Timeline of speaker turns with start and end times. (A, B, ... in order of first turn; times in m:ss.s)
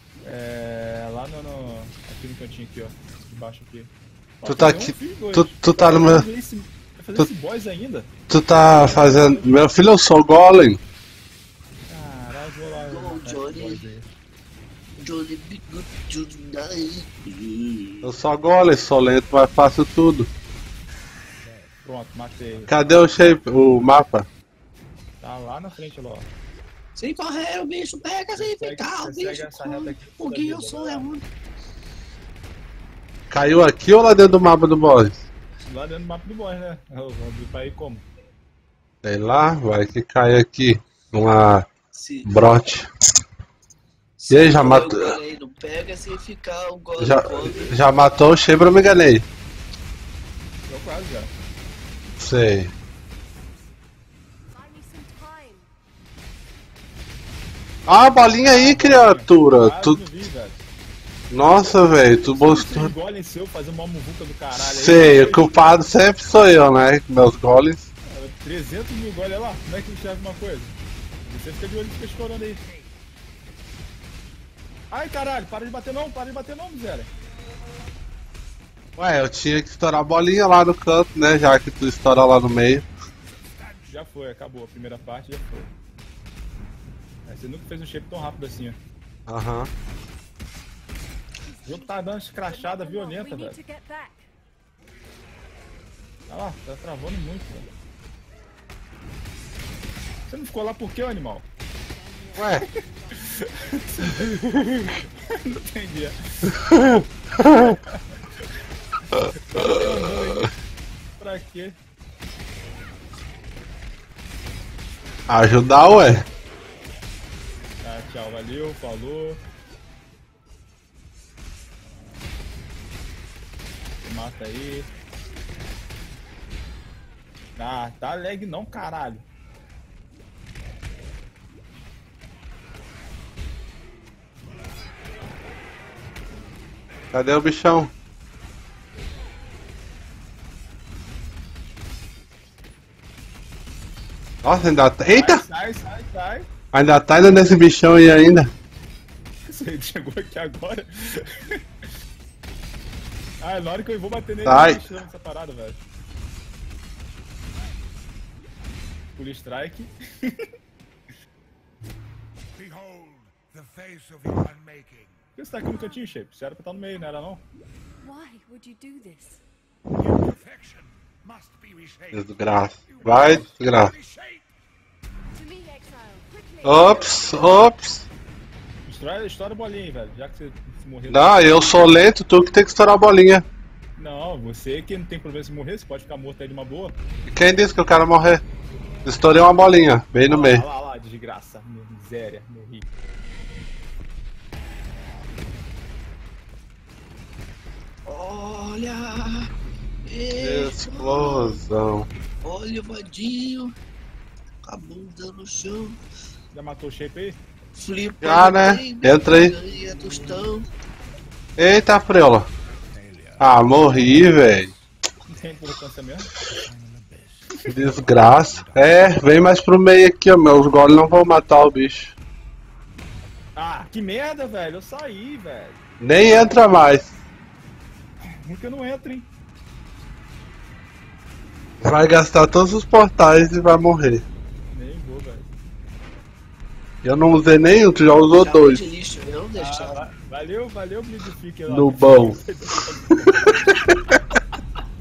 0:00.2-0:09.6 A
0:04.5-0:06.3 B
0:08.3-0:10.8 B
0:11.9-0:14.1 A
0:12.8-0:13.8 C
0:15.0-0:18.1 C
0:18.0-0:20.3 B
0:21.7-0:22.7 A
0:22.7-0:24.3 B
0:25.2-0:26.3 A
0:27.0-0:31.2 C
0:28.4-0:31.1 A
0:33.3-0:35.2 B
0:35.6-0:38.0 A
0:39.0-0:41.7 B
0:41.9-0:42.3 C
0:42.2-0:42.9 B
0:44.2-0:47.8 C
0:44.3-0:45.2 B
0:47.0-0:49.3 B
0:50.7-0:51.3 A
0:52.2-0:52.7 B
0:54.5-0:55.7 D
0:57.9-1:00.0 B
0:58.4-1:00.6 A
1:01.3-1:02.9 B
1:02.4-1:05.8 A
1:04.6-1:07.9 B
1:08.1-1:10.8 A
1:11.3-1:12.6 A
1:14.9-1:17.1 A
1:19.0-1:22.9 B
1:23.3-1:23.9 E
1:23.9-1:25.7 A
1:27.3-1:28.8 A
1:29.3-1:29.7 B
1:31.4-1:34.3 D
1:31.6-1:33.6 A
1:36.3-1:37.7 A
1:40.3-1:41.5 A
1:41.8-1:45.1 D
1:42.4-1:42.7 B
1:43.2-1:46.2 A
1:46.7-1:47.7 B
1:47.5-1:48.0 A
1:49.3-1:50.5 A
1:51.2-1:51.8 A
1:55.3-1:56.2 B
1:57.8-1:59.4 A
2:04.0-2:04.9 A
2:07.6-2:09.2 A
2:17.1-2:17.9 B
2:24.4-2:25.4 B
2:25.1-2:26.5 A
2:26.7-2:28.5 B
2:29.4-2:31.6 A
2:33.4-2:35.8 A
2:34.4-2:34.8 B
2:39.2-2:40.5 A
2:42.6-2:45.1 E
2:45.4-2:47.4 A
2:48.0-2:49.4 D
2:50.0-2:52.1 E
2:52.1-2:53.9 B
2:54.0-2:54.4 E
2:55.3-2:57.6 D
2:56.6-2:58.1 B
2:58.8-3:01.9 A
3:01.1-3:03.5 B
3:04.0-3:07.0 A
3:07.3-3:08.4 B
3:09.0-3:10.6 B
3:10.2-3:12.9 A
3:18.1-3:19.5 C
3:20.1-3:21.6 C
3:20.4-3:22.1 B
3:22.4-3:23.7 C
3:24.6-3:26.0 C
3:26.5-3:27.4 A
3:27.8-3:30.7 C
3:28.2-3:29.6 B
3:29.8-3:30.4 E
3:31.6-3:32.5 B
3:32.7-3:35.8 E
3:33.4-3:34.7 B
3:35.3-3:36.5 A
3:36.6-3:39.2 E
3:37.7-3:42.2 B
3:43.6-3:45.8 A
3:46.0-3:47.2 B
3:48.2-3:49.3 A
3:51.8-3:54.2 B
3:54.7-3:55.5 A
3:57.0-3:58.8 B
3:58.1-4:00.1 C
3:59.6-4:03.8 A
4:01.7-4:02.4 B
4:03.4-4:03.9 B